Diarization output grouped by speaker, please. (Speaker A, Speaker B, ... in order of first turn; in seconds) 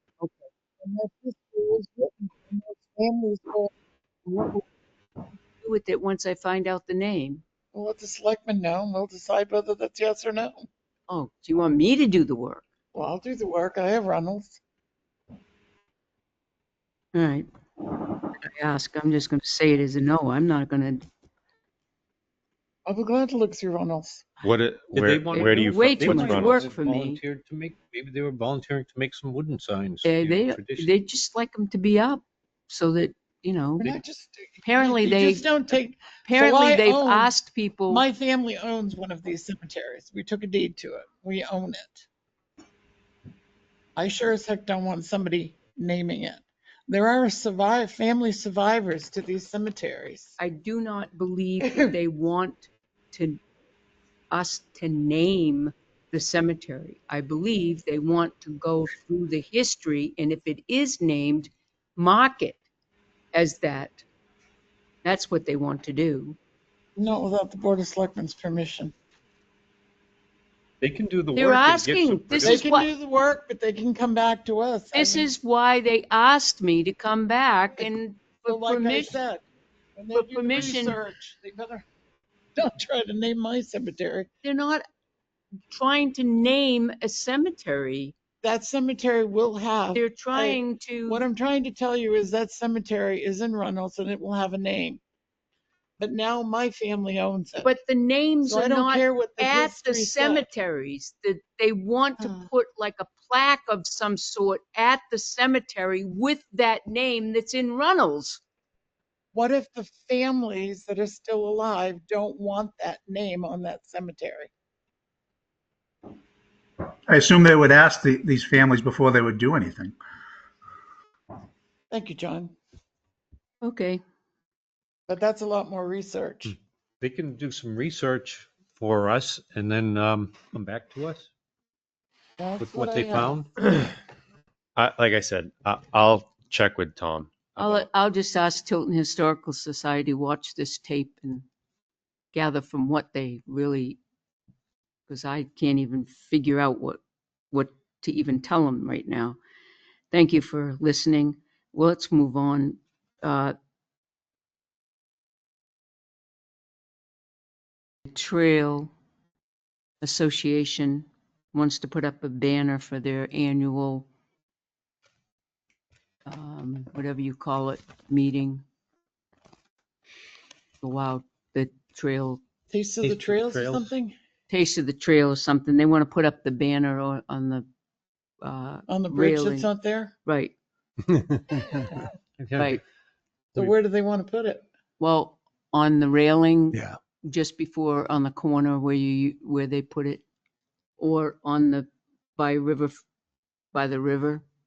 Speaker A: 0.2-0.5, 4.2-4.6, 5.5-7.4, 11.1-12.6, 17.1-17.5, 18.3-21.0, 25.3-27.2, 30.0-33.9, 34.6-35.5, 36.2-38.0, 50.4-53.4, 54.3-62.6, 63.3-64.0, 65.0-66.4, 71.3-72.9, 74.9-79.2, 80.1-81.0, 84.4-84.8, 85.7-88.1, 89.9-91.2, 97.6-108.4, 123.6-124.0, 137.6-141.4, 142.3-144.0, 145.1-147.0, 147.5-149.4, 150.1-153.5, 158.1-158.9, 160.0-164.1, 166.2-168.6, 170.8-172.4, 174.5-177.7, 178.4-179.7, 180.2-180.5, 181.5-181.9, 182.6-182.8, 185.0-190.2, 191.0-193.0, 193.7-194.4
Speaker B: 0.8-3.7, 7.7-10.7, 12.9-14.6, 22.9-24.2, 33.8-37.3, 37.9-42.0, 44.0-50.4, 51.7-51.9, 67.0-68.9, 72.4-75.3, 78.5-79.4, 80.0-81.8, 82.5-84.3, 88.4-95.0, 96.0-97.7, 98.5-100.5, 102.2-102.5, 109.3-114.5, 121.9-122.5, 125.1-126.5, 132.4-133.4, 172.7-174.1, 178.9-180.1, 183.5-184.7
Speaker C: 24.4-26.6, 133.6-133.9, 134.8-137.9
Speaker D: 24.9-30.9, 70.8-72.6, 126.5-131.3, 132.6-133.5, 173.0-173.9, 182.4-182.8
Speaker E: 117.1-119.9